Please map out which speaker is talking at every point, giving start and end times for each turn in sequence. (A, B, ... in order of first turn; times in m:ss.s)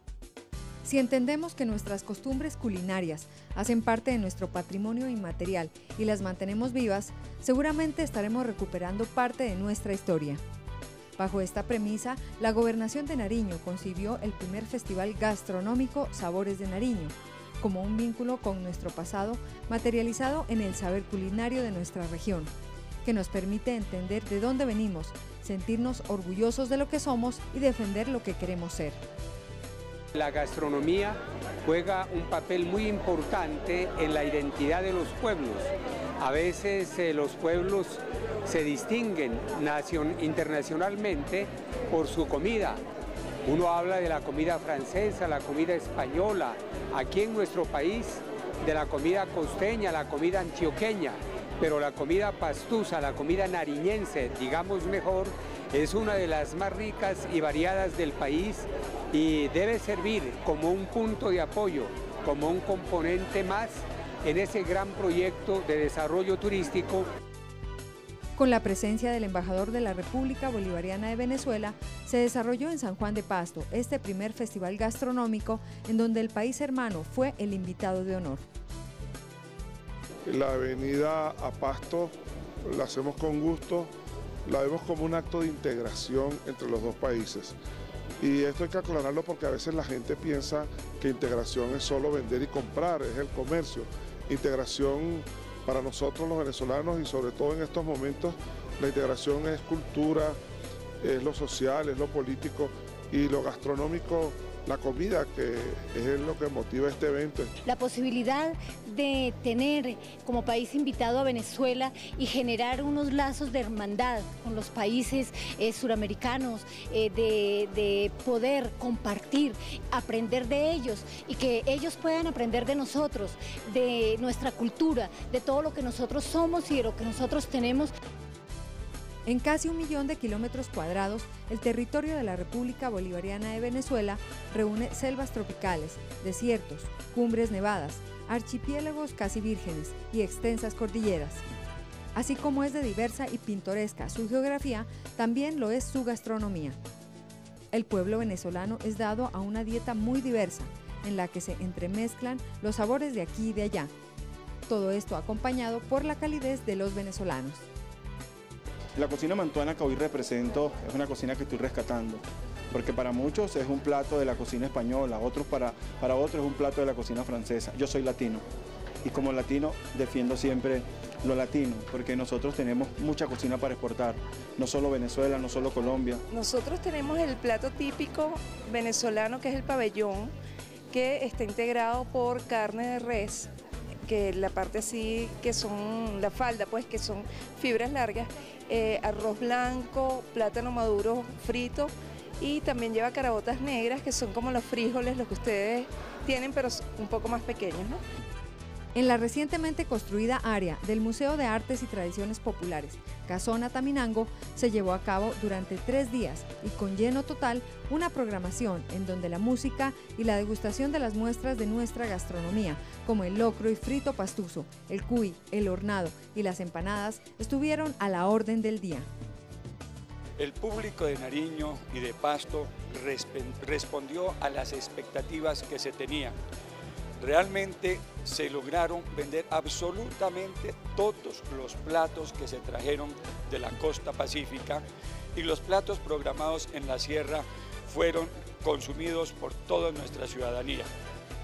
0:00.8-0:10.4 A
0:11.2-0:22.5 A
0:23.0-0:29.0 A
0:30.2-0:35.7 B
0:36.2-0:42.8 B
0:43.5-1:07.1 B
1:08.4-1:18.4 A
1:20.3-1:22.1 C
1:22.6-1:23.9 C
1:24.5-1:27.6 C
1:28.2-1:40.4 C
1:41.0-1:47.5 C
1:47.7-2:07.9 D
2:09.3-2:21.4 A
2:22.2-2:26.8 A
2:27.7-2:33.9 A
2:34.7-2:37.6 A
2:39.0-2:48.4 E
2:49.0-2:56.2 E
2:56.3-3:00.3 F
3:00.9-3:03.5 F
3:04.1-3:18.0 F
3:19.0-3:39.1 A
3:40.4-3:46.4 G
3:47.2-3:54.8 G
3:55.4-4:00.9 G